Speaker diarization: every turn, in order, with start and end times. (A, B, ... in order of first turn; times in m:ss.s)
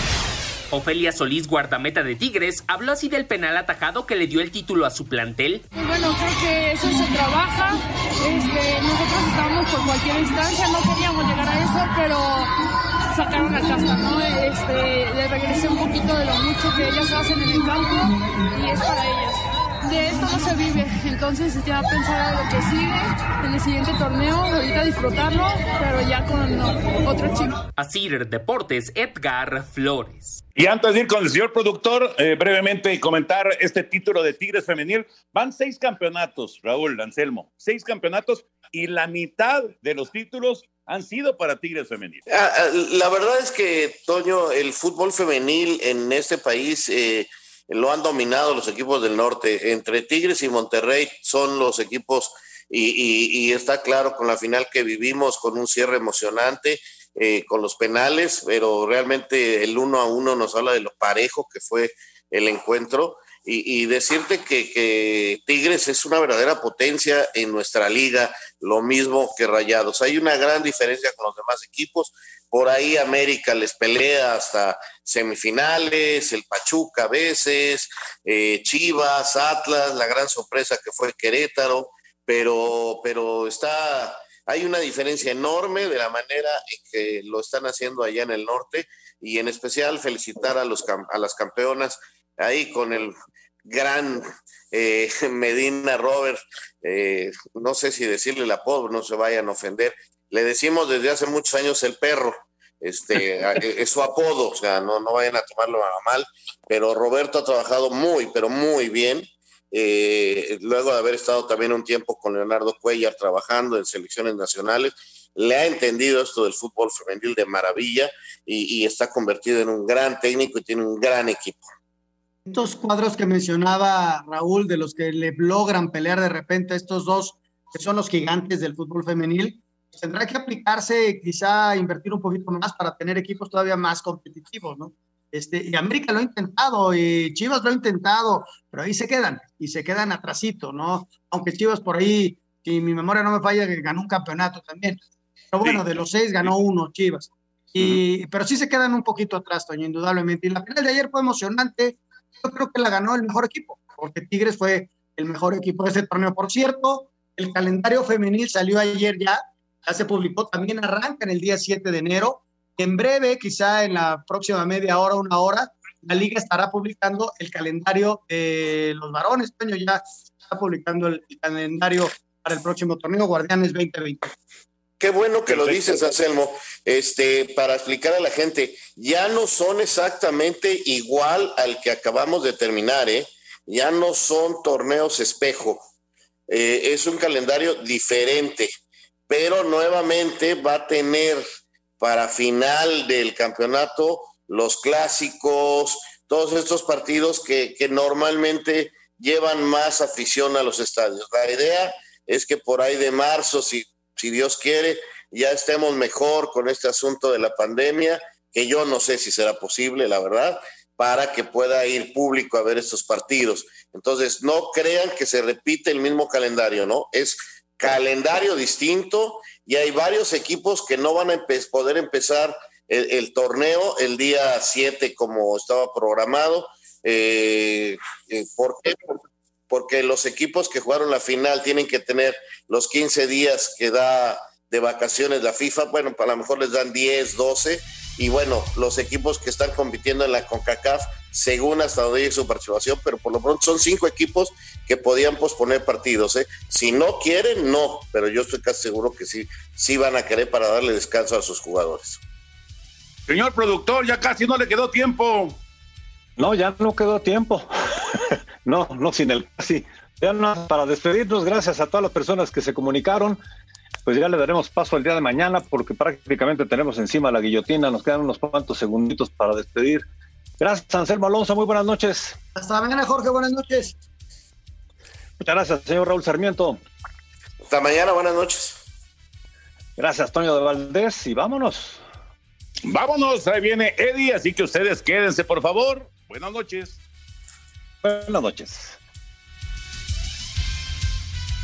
0:00.7-0:05.6 A
0:05.8-0:12.5 B
0:13.1-0:27.6 B
0:27.8-0:30.4 A
0:30.6-0:42.2 C
0:42.3-2:01.7 D
2:02.5-2:25.0 E
2:25.5-2:54.3 E
2:55.0-3:05.9 D
2:55.5-2:56.0 C
3:06.5-3:08.7 D
3:09.3-3:11.4 D
3:12.0-3:49.1 D
3:49.7-4:12.2 D
4:13.3-4:15.6 C
4:16.4-4:23.4 F
4:24.0-4:30.1 F
4:30.6-4:32.4 F
4:32.6-4:34.0 E
4:35.4-4:36.8 F
4:37.7-4:38.8 D
4:40.0-4:42.0 F
4:42.8-4:47.0 C
4:48.0-4:49.0 F